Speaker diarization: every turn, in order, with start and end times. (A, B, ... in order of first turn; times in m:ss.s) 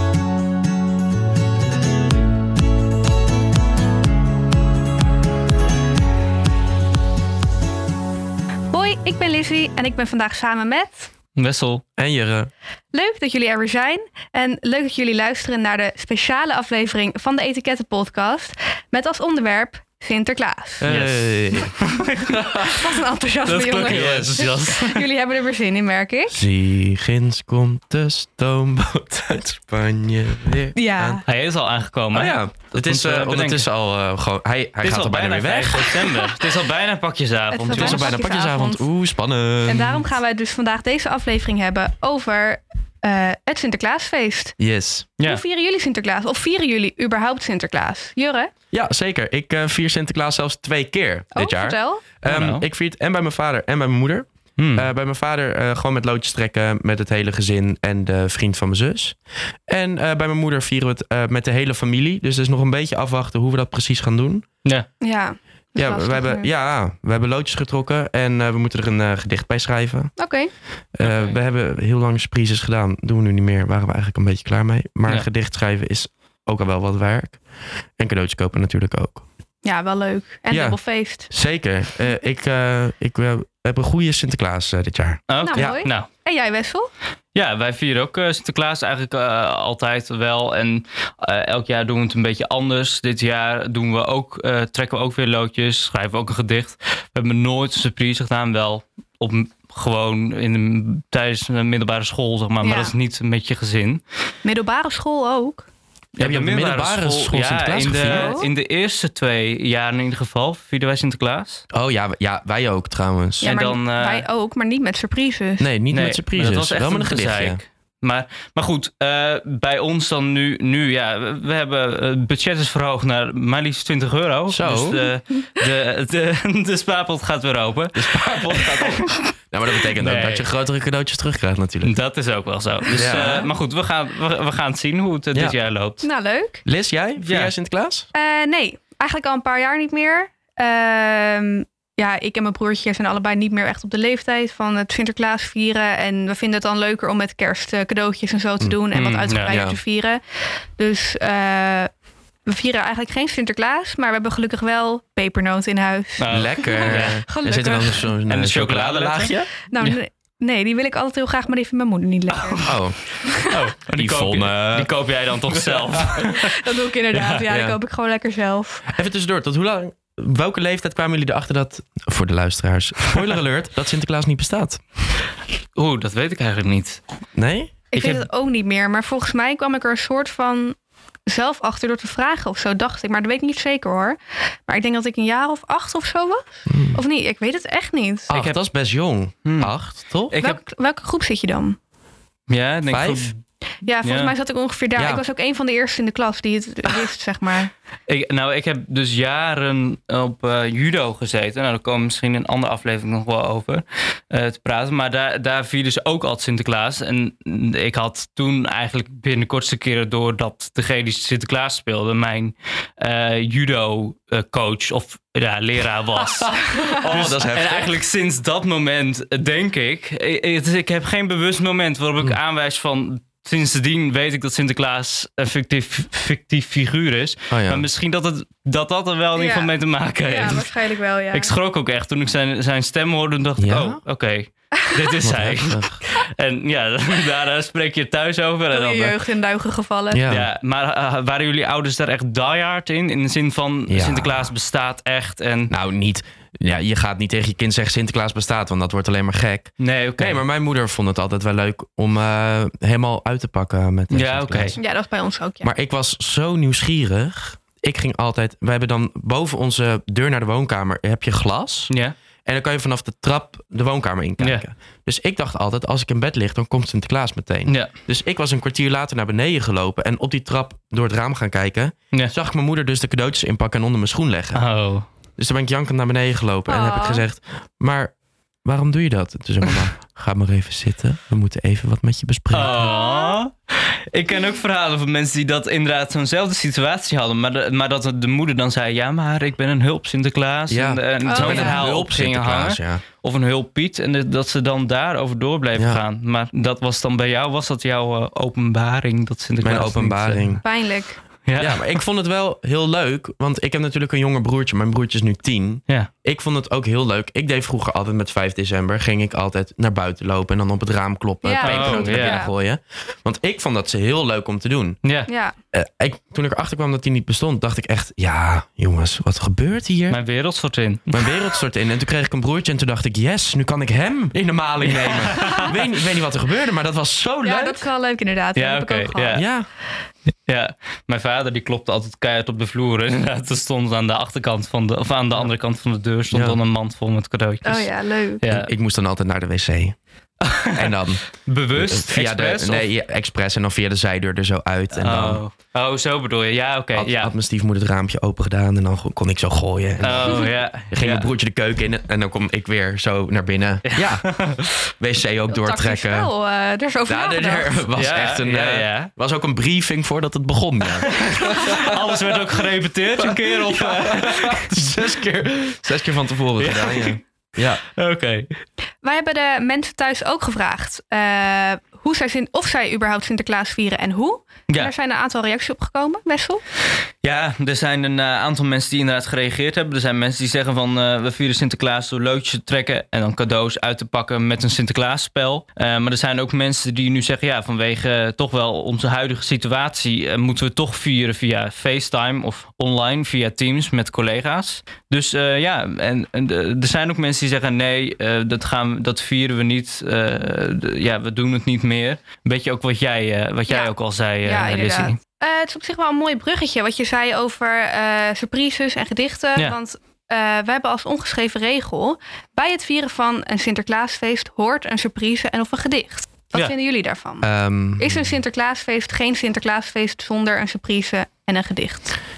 0:08.7-0:11.1 A
0:11.4-0:11.8 B
0:12.0-0:12.5 C
0:12.9-0:20.9 A
0:20.8-0:22.8 C
0:20.9-0:22.5 B
0:22.5-0:26.4 A
0:23.4-0:25.1 B
0:23.9-0:24.5 C
0:26.3-0:31.2 C
0:30.8-0:31.2 A
0:31.3-0:33.7 B
0:32.1-0:36.2 C
0:34.8-0:38.2 B
0:37.5-0:38.9 A
0:37.7-0:40.0 C
0:39.7-0:44.6 A
0:44.6-0:45.1 C
0:45.2-0:48.5 A
0:48.7-1:04.5 C
0:51.3-0:52.0 A
0:52.2-0:52.6 B
0:54.6-0:54.9 B
1:05.0-1:06.5 A
1:05.8-1:10.2 C
1:10.2-1:10.5 A
1:11.0-1:17.4 C
1:11.0-1:11.4 B
1:18.0-1:19.2 C
1:19.6-1:21.3 A
1:20.5-1:25.8 C
1:25.3-1:26.1 B
1:25.4-1:26.9 A
1:27.4-1:44.0 B
1:42.6-1:42.9 A
1:44.4-1:45.7 A
1:46.2-1:51.6 B
1:46.2-1:48.4 C
1:48.0-1:48.5 A
1:51.7-1:53.5 C
1:53.4-1:55.7 A
1:53.4-1:54.2 B
1:55.6-1:57.6 C
1:55.9-2:09.3 B
2:04.5-2:05.1 C
2:08.0-2:11.9 C
2:09.8-2:10.5 B
2:11.8-2:16.0 B
2:12.9-2:13.5 C
2:16.0-2:16.6 A
2:16.6-2:18.1 C
2:17.2-2:17.5 B
2:18.1-2:30.2 A
2:28.9-2:29.6 B
2:29.5-2:29.8 C
2:30.8-2:31.9 A
2:32.5-2:38.1 A
2:36.2-2:37.2 B
2:36.3-2:39.5 C
2:38.3-2:40.0 B
2:39.7-2:43.7 A
2:42.3-2:42.8 B
2:42.6-2:43.0 C
2:43.4-2:47.4 B
2:43.9-2:45.0 C
2:45.5-2:46.2 C
2:46.2-2:48.8 A
2:47.5-2:47.8 C
2:48.9-2:54.8 C
2:55.8-2:57.0 B
2:57.4-2:57.8 C
2:57.9-3:00.8 A
2:58.0-2:58.3 B
3:01.3-3:08.4 A
3:06.7-3:07.0 C
3:08.3-3:10.4 C
3:08.3-3:08.6 B
3:09.4-3:09.7 B
3:10.3-3:10.6 B
3:10.4-3:11.8 A
3:12.5-3:13.4 B
3:12.9-3:13.3 C
3:13.8-3:17.7 A
3:14.0-3:14.3 B
3:15.0-3:15.2 C
3:18.1-3:50.7 B
3:36.5-3:38.0 C
3:47.5-3:47.9 C
3:49.4-3:49.7 A
3:50.2-3:51.5 A
3:51.3-3:59.2 B
3:53.6-3:54.0 C
3:55.2-3:55.9 C
3:58.7-4:00.2 A
4:00.1-4:00.5 C
4:00.3-4:05.7 B
4:03.9-4:04.5 C
4:05.7-4:14.8 C
4:09.8-4:10.4 B
4:14.1-4:14.8 B
4:14.8-4:15.7 A
4:15.6-4:21.9 C
4:22.5-4:34.6 C
4:34.6-4:35.1 B
4:35.4-4:38.1 C
4:36.7-4:37.2 A
4:38.6-4:42.8 C
4:42.5-5:00.6 B
4:42.6-4:43.4 A
4:50.7-4:53.0 C
4:51.2-4:51.8 A
4:55.8-4:56.0 C
4:59.6-5:00.6 C
5:00.6-5:01.2 A
5:01.5-5:02.0 B
5:01.6-5:15.0 C
5:11.4-5:12.5 A
5:11.6-5:12.4 B
5:15.0-5:15.3 B
5:15.3-5:15.6 A
5:15.7-5:20.2 C
5:20.1-5:21.2 B
5:21.1-5:27.8 C
5:24.8-5:25.8 B
5:25.4-5:25.7 A
5:27.4-5:29.4 A
5:28.6-5:29.4 B
5:29.3-5:29.7 C
5:30.5-5:38.7 B
5:36.3-5:36.6 C
5:37.6-5:38.4 A
5:38.5-5:40.0 C
5:40.4-5:42.9 B
5:40.7-5:45.4 C
5:44.9-5:47.3 B
5:47.0-5:56.3 C
5:50.0-5:51.3 B
5:53.8-5:54.7 B
5:55.5-5:57.9 A
5:57.1-6:02.6 C
5:58.0-5:59.1 B
6:01.0-6:04.9 B
6:03.2-6:07.8 C
6:06.6-6:07.2 B
6:07.9-6:08.5 B
6:09.0-6:16.6 A
6:17.2-6:45.2 B
6:44.4-7:02.2 A
6:57.4-6:58.2 C